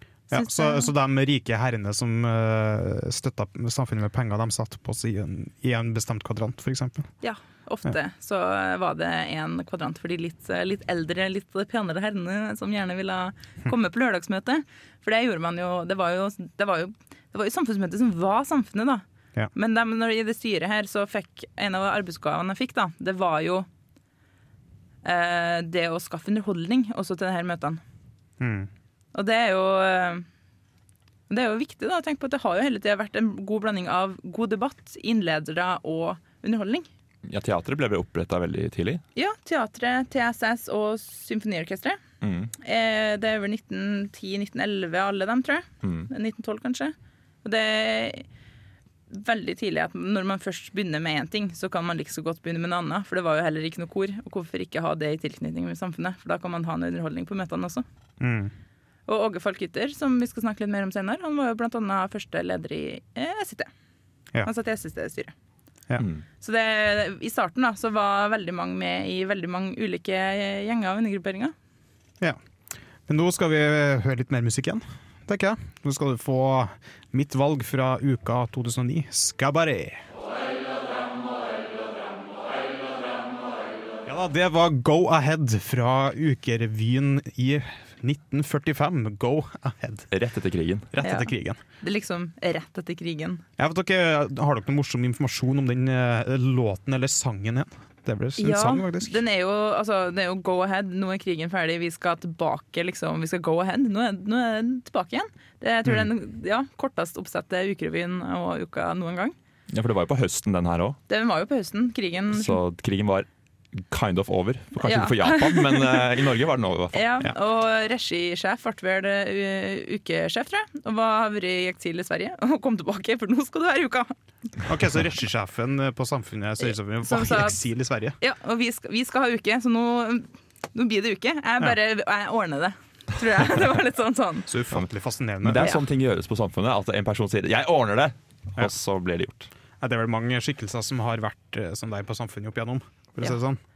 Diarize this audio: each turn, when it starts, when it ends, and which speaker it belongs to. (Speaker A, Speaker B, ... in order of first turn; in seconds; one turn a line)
Speaker A: 0.3-0.9
Speaker B: 0.3-7.1
Speaker A: 7.2-23.7
Speaker A: 25.0-27.8
Speaker B: 28.4-28.7
Speaker A: 29.1-30.2
Speaker A: 31.3-36.9
Speaker C: 37.3-39.0
Speaker A: 39.1-42.0
Speaker C: 42.2-42.5
Speaker A: 42.6-48.3
Speaker C: 45.8-46.1
Speaker A: 49.1-57.8
Speaker B: 58.2-58.5
Speaker A: 59.1-63.7
Speaker A: 64.4-65.3
Speaker C: 66.0-66.2
Speaker A: 66.4-71.5
Speaker B: 73.1-80.0
Speaker B: 84.0-90.1
Speaker C: 90.1-90.9
Speaker B: 90.9-91.6
Speaker A: 91.0-93.4
Speaker B: 93.6-99.2
Speaker A: 98.4-109.3
Speaker C: 109.7-111.0
Speaker A: 111.1-112.6
Speaker C: 112.3-117.1
Speaker A: 114.8-116.0
Speaker A: 116.9-124.1
Speaker B: 124.7-128.2
Speaker A: 126.6-127.6
Speaker A: 128.2-134.5
Speaker B: 134.5-135.7
Speaker C: 135.4-139.5
Speaker A: 135.6-135.8
Speaker B: 139.8-143.6